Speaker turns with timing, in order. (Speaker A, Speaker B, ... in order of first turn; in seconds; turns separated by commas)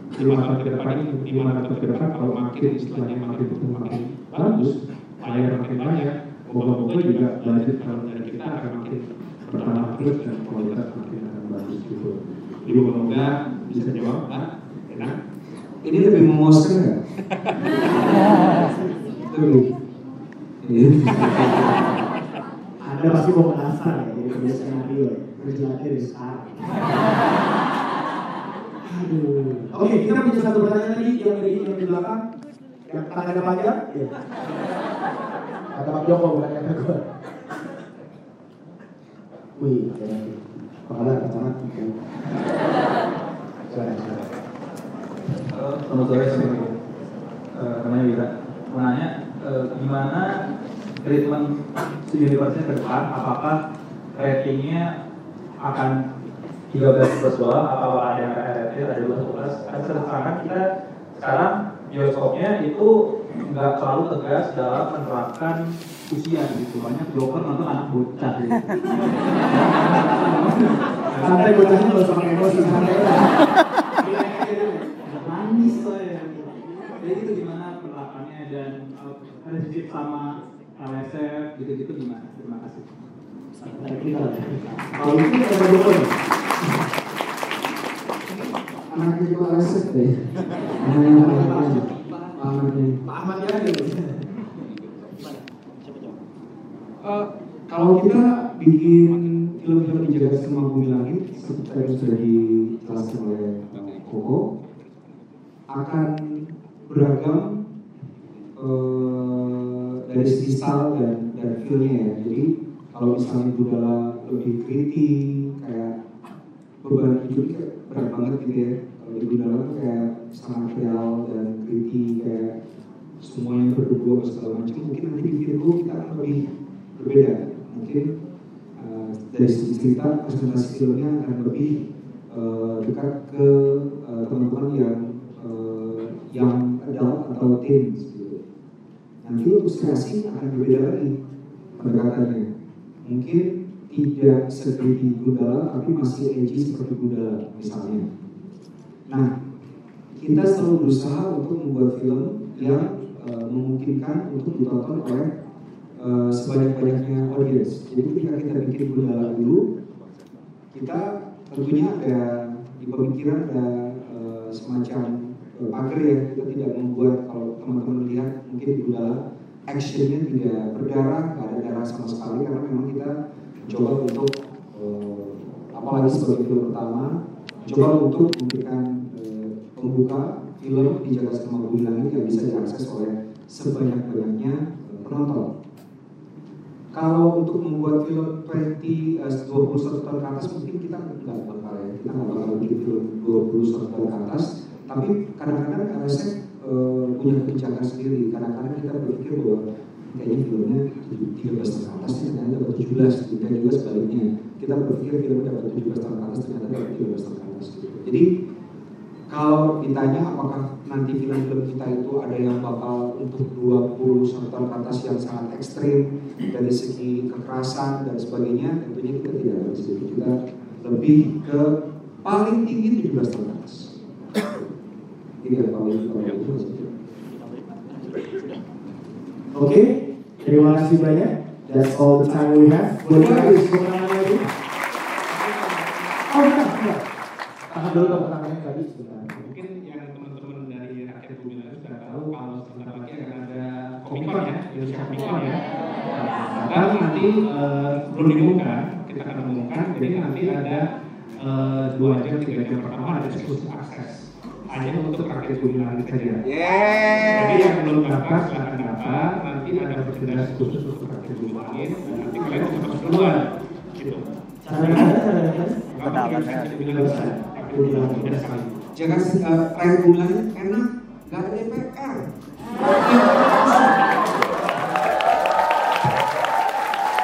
Speaker A: 0.1-15.2, Speaker B: 15.8-17.0, Speaker B: 19.1-19.7, Speaker B: 20.6-21.9, Speaker C: 22.8-27.2, Speaker C: 28.8-32.2, Speaker C: 32.9-34.1, Speaker C: 35.7-37.0, Speaker C: 39.6-41.9, Speaker C: 43.7-44.2, Speaker D: 45.5-46.7, Speaker D: 47.5-50.4, Speaker D: 51.0-53.6, Speaker D: 54.1-54.9, Speaker D: 55.6-56.0, Speaker D: 56.7-71.5, Speaker C: 71.2-73.3, Speaker D: 72.6-73.1, Speaker D: 74.0-82.9, Speaker C: 83.6-86.2, Speaker B: 88.9-90.3, Speaker B: 90.8-93.0, Speaker C: 93.0-94.2, Speaker B: 97.0-104.4, Speaker B: 105.7-106.2, Speaker B: 106.9-107.6, Speaker B: 108.5-116.0, Speaker B: 116.8-122.5, Speaker B: 123.2-128.1, Speaker B: 128.8-138.4, Speaker B: 139.2-141.2, Speaker B: 141.8-142.5, Speaker B: 143.0-148.1, Speaker B: 150.2-155.3, Speaker B: 156.0-159.6, Speaker B: 160.7-173.1, Speaker B: 173.7-185.5, Speaker B: 186.9-208.3, Speaker B: 209.3-223.9, Speaker B: 225.4-226.9, Speaker C: 229.5-234.5, Speaker B: 233.1-233.7, Speaker C: 236.2-237.0, Speaker C: 237.7-239.5, Speaker A: 239.4-250.8, Speaker A: 251.4-256.4, Speaker B: 256.6-257.1, Speaker A: 257.2-264.2, Speaker C: 264.7-265.8, Speaker A: 264.8-265.1, Speaker A: 265.9-268.8, Speaker C: 266.9-268.4, Speaker B: 268.9-272.3, Speaker B: 272.8-273.9